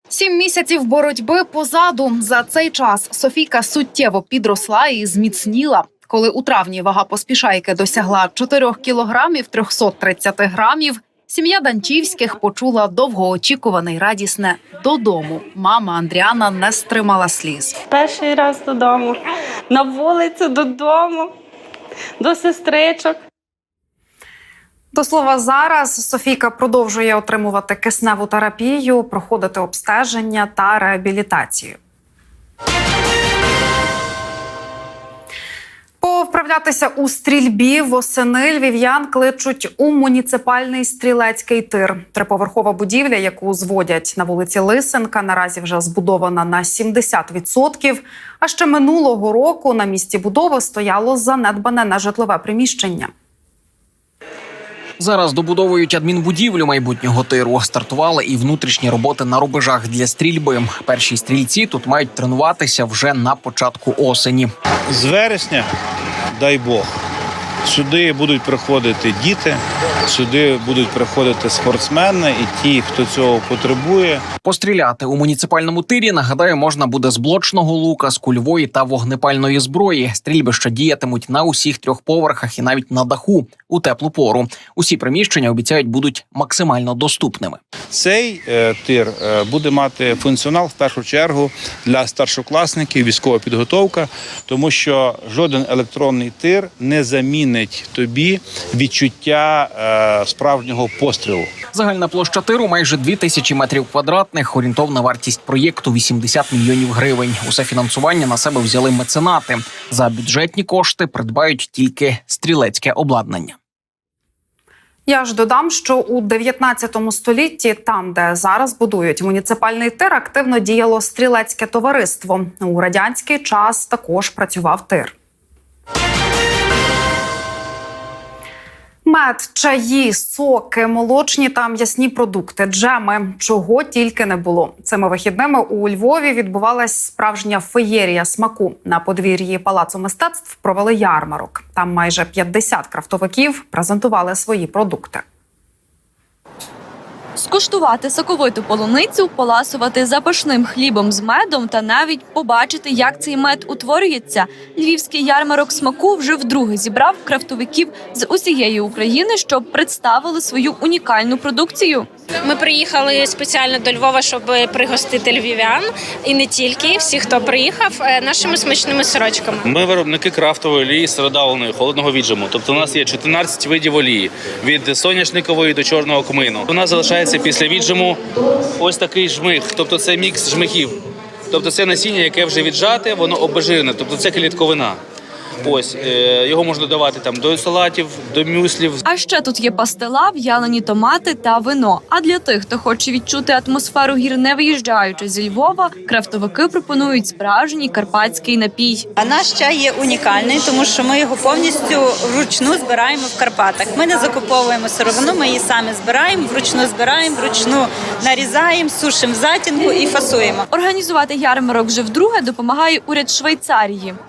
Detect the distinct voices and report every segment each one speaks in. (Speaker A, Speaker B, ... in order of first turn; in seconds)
Speaker A: 0.1-17.7, 24.9-31.8, 36.0-53.1, 115.1-125.1, 129.0-145.2
Speaker B: 17.9-19.1, 19.7-21.3, 22.2-23.2
Speaker C: 55.0-64.5, 74.4-87.6, 101.7-113.5
Speaker D: 64.9-65.7, 66.3-66.9, 67.6-74.2, 87.9-101.5
Speaker E: 147.4-162.1, 189.0-199.1, 210.7-214.2
Speaker F: 162.4-169.7
Speaker G: 169.7-178.2, 178.8-181.0, 181.5-185.0, 185.6-189.0
Speaker H: 199.2-210.6